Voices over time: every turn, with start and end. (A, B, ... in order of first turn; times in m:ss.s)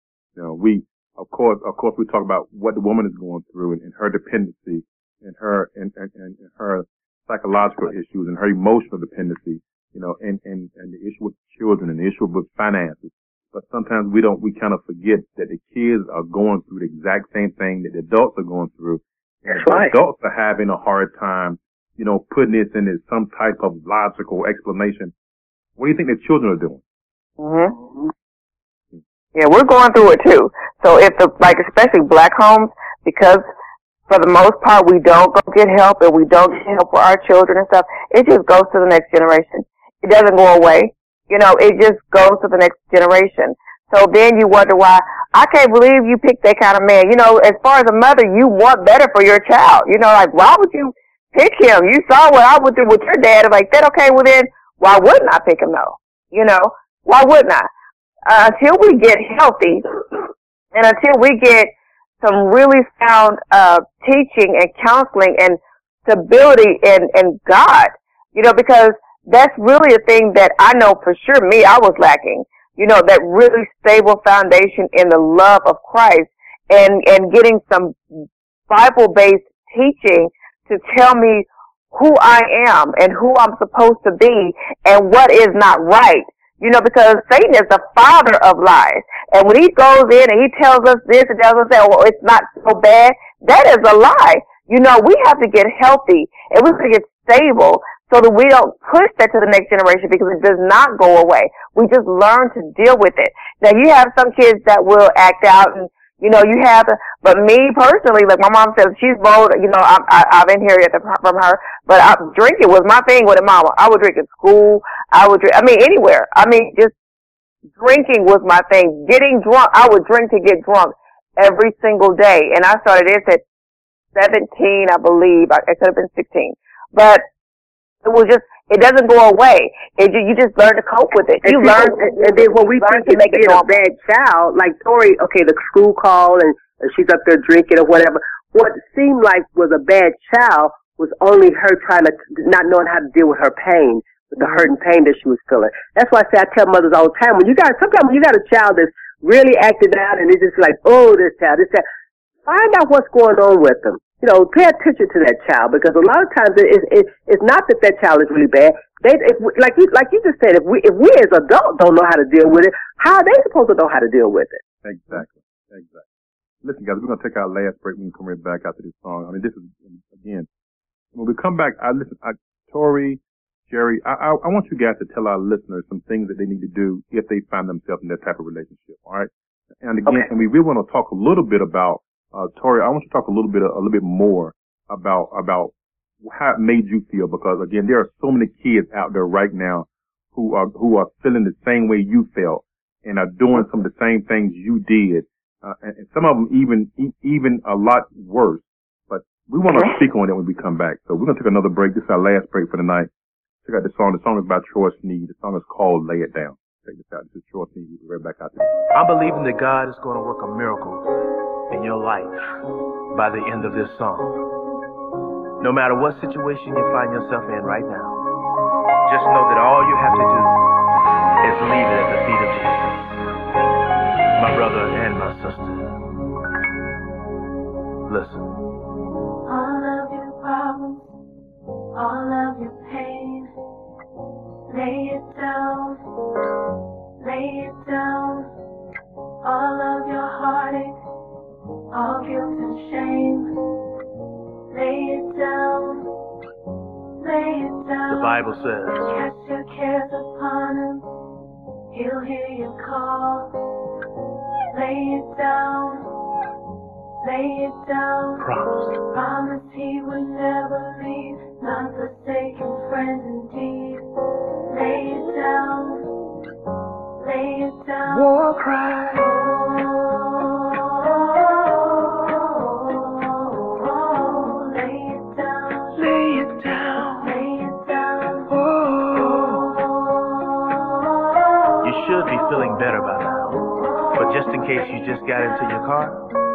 0:00.4-0:25.1 A
0:19.5-0:19.9 B
0:25.8-0:26.8 A
0:27.4-0:27.7 C
0:29.3-0:33.4 C
0:34.1-0:57.7 C
0:58.3-0:59.8 C
1:00.7-1:18.0 C
1:18.7-1:56.9 C
1:57.8-2:03.4 C
2:04.1-2:07.2 C
2:08.0-2:13.8 C
2:11.4-2:31.8 B
2:32.4-2:44.6 B
2:44.8-2:46.0 A
2:46.6-2:50.5 A
2:51.1-2:59.3 A
2:59.8-3:23.1 A
3:23.6-3:28.7 A
3:28.9-3:31.1 D
3:31.7-3:32.4 D
3:33.1-3:34.4 D
3:35.6-3:38.2 D
3:39.0-3:40.6 D
3:41.4-3:43.2 D
3:44.4-3:46.0 D
3:48.1-3:48.6 D
3:49.4-3:51.2 E
3:51.9-3:53.5 E
3:54.7-3:56.0 E
3:57.2-3:58.5 E
3:59.4-4:01.0 E
4:01.9-4:03.5 E
4:04.7-4:06.1 E
4:07.2-4:11.1 E
4:08.1-4:09.1 D
4:11.9-4:13.5 E
4:14.7-4:16.2 E
4:17.2-4:24.0 E
4:18.4-4:19.0 D
4:24.7-4:26.1 E
4:27.2-4:36.1 E
4:28.1-4:29.2 D
4:35.9-4:37.3 D
4:37.2-4:38.6 E
4:38.5-4:39.7 D
4:39.3-4:39.9 E
4:41.8-4:42.2 E
4:41.8-4:46.3 D
4:43.8-4:45.8 E